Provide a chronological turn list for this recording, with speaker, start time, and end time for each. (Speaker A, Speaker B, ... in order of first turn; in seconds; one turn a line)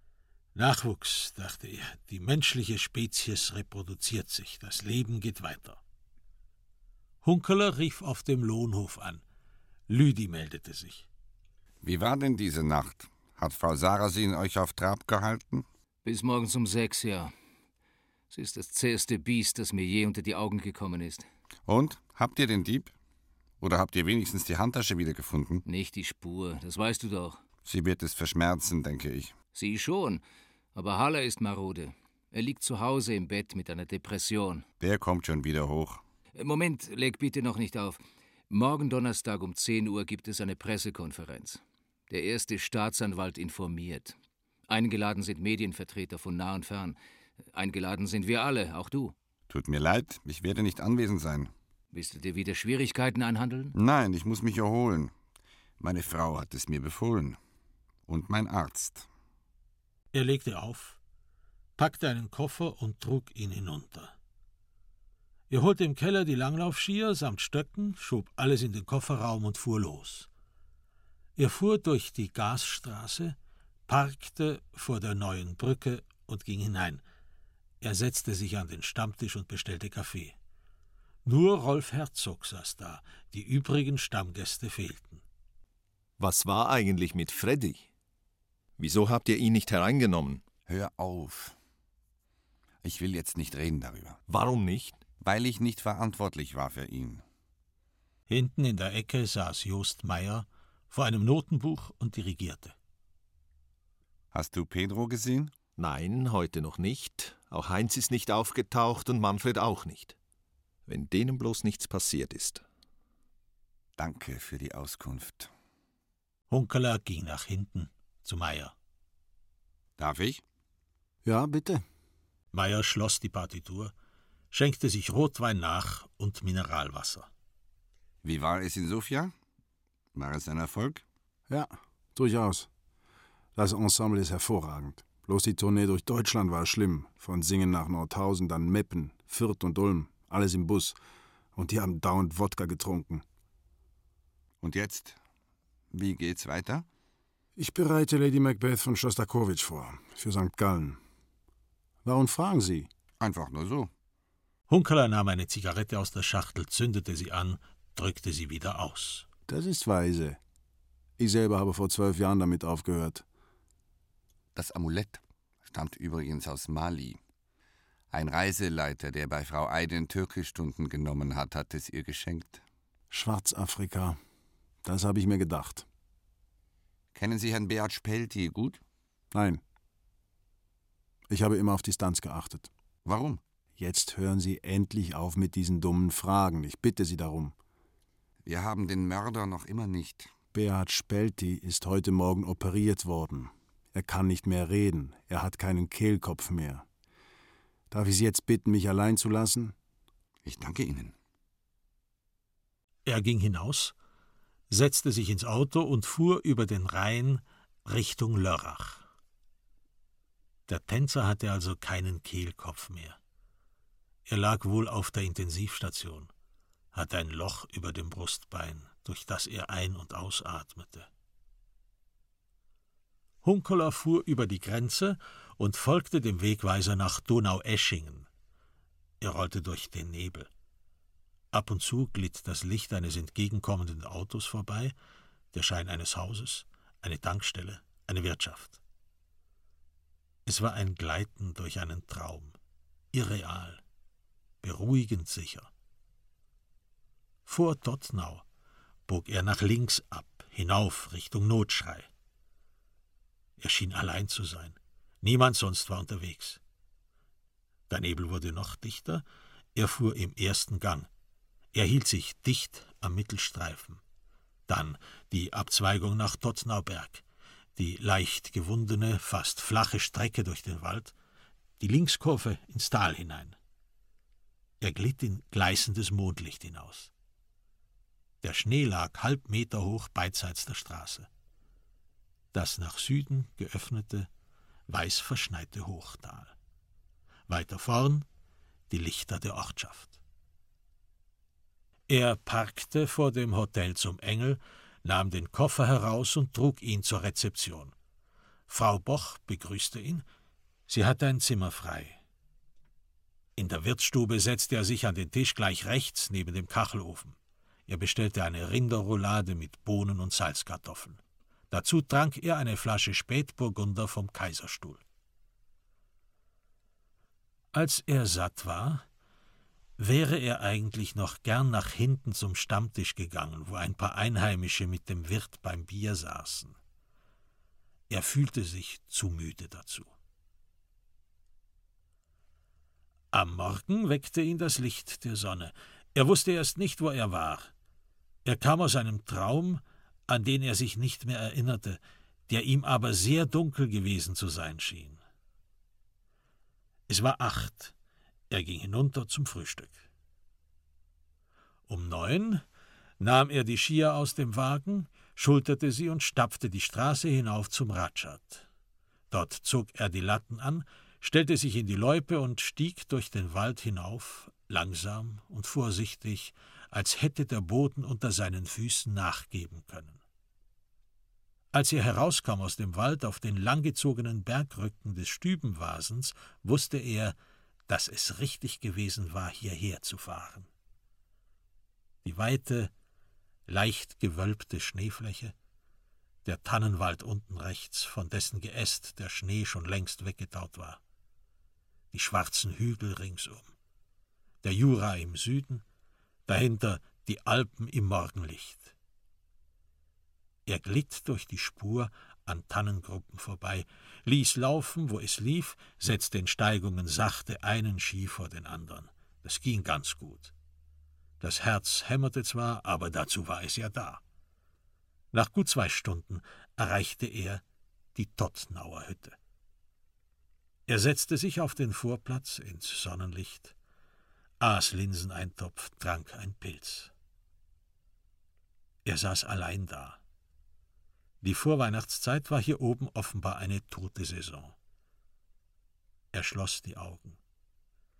Speaker A: 0.5-5.8
Speaker A: 7.2-9.2
Speaker A: 9.9-11.1
Speaker B: 11.8-15.7
Speaker C: 16.0-17.3
Speaker C: 18.3-21.2
Speaker B: 21.7-22.9
Speaker B: 23.6-25.6
Speaker C: 25.6-27.4
Speaker B: 27.6-29.3
Speaker C: 29.5-30.2
Speaker C: 30.7-34.6
Speaker B: 34.8-36.0
Speaker C: 36.4-44.1
Speaker C: 44.7-47.0
Speaker C: 47.5-49.1
Speaker B: 49.5-51.5
Speaker C: 51.9-53.7
Speaker B: 53.7-55.1
Speaker B: 55.8-57.4
Speaker B: 58.1-59.1
Speaker A: 60.1-61.0
Speaker A: 61.8-64.1
Speaker A: 65.5-70.3
Speaker A: 71.4-73.3
Speaker A: 73.9-77.0
Speaker A: 77.8-80.3
Speaker A: 81.2-85.2
Speaker D: 86.2-87.8
Speaker D: 88.8-90.4
Speaker B: 90.7-91.5
Speaker B: 92.8-94.2
Speaker D: 94.3-95.0
Speaker B: 95.2-97.2
Speaker A: 98.3-102.7
Speaker B: 104.3-105.5
Speaker D: 105.8-110.1
Speaker D: 110.9-112.6
Speaker B: 114.0-115.5
Speaker A: 116.5-118.7
Speaker B: 120.0-120.4
Speaker E: 121.2-121.8
Speaker A: 122.5-123.9
Speaker A: 124.5-127.3
Speaker B: 128.2-129.3
Speaker B: 130.1-131.0
Speaker E: 131.5-132.7
Speaker E: 133.6-140.9
Speaker E: 141.6-143.2
Speaker B: 144.6-145.2
Speaker B: 145.9-146.8
Speaker E: 147.6-151.0
Speaker E: 152.0-152.9
Speaker B: 153.2-153.9
Speaker A: 154.7-159.2
Speaker E: 159.5-160.4
Speaker E: 161.2-163.2
Speaker B: 164.5-167.2
Speaker B: 168.1-172.6
Speaker E: 173.1-174.2
Speaker E: 174.8-175.8
Speaker B: 177.1-178.8
Speaker E: 179.3-179.6
Speaker E: 181.3-182.7
Speaker B: 183.0-183.4
Speaker E: 183.8-187.5
Speaker B: 188.4-190.3
Speaker E: 190.5-196.8
Speaker E: 197.9-199.7
Speaker B: 200.4-201.1
Speaker A: 203.1-203.9
Speaker A: 204.7-209.0
Speaker A: 210.7-213.2
Speaker A: 214.3-216.3
Speaker A: 216.9-221.1
Speaker A: 223.4-228.3
Speaker A: 229.2-230.5
Speaker A: 231.5-234.9
Speaker A: 235.5-238.8
Speaker A: 240.4-242.5
Speaker A: 243.1-243.8
Speaker A: 244.6-245.7
Speaker A: 247.4-248.4
Speaker A: 249.1-252.1
Speaker A: 253.6-256.6
Speaker A: 257.9-259.2
Speaker A: 259.7-261.1
Speaker A: 261.7-264.0
Speaker A: 264.7-267.2
Speaker A: 267.8-271.1
Speaker A: 271.8-273.6
Speaker A: 274.8-277.1
Speaker A: 278.4-281.3
Speaker A: 282.5-284.3
Speaker A: 284.9-286.5
Speaker A: 287.5-288.2
Speaker A: 288.9-290.2
Speaker A: 292.1-297.9
Speaker A: 298.7-300.2
Speaker A: 300.9-302.2
Speaker A: 303.6-307.4
Speaker A: 307.9-311.2
Speaker A: 311.7-315.0
Speaker A: 317.7-319.0
Speaker A: 320.0-326.8
Speaker A: 328.1-330.1
Speaker A: 333.3-337.7
Speaker A: 338.4-345.2
Speaker A: 347.1-347.9
Speaker A: 348.5-350.1
Speaker A: 351.9-352.6
Speaker A: 353.2-358.6
Speaker A: 359.3-370.2
Speaker A: 371.7-377.3
Speaker A: 377.9-380.7
Speaker A: 382.2-382.9
Speaker A: 383.7-385.5
Speaker A: 386.4-391.0
Speaker A: 392.1-393.7
Speaker A: 394.6-395.8
Speaker A: 396.5-398.9
Speaker A: 400.6-410.5
Speaker A: 411.4-414.2
Speaker A: 415.3-417.6
Speaker A: 418.1-419.4
Speaker A: 420.9-423.7
Speaker A: 424.6-427.1
Speaker A: 429.1-430.2
Speaker A: 431.4-434.7
Speaker A: 436.3-437.4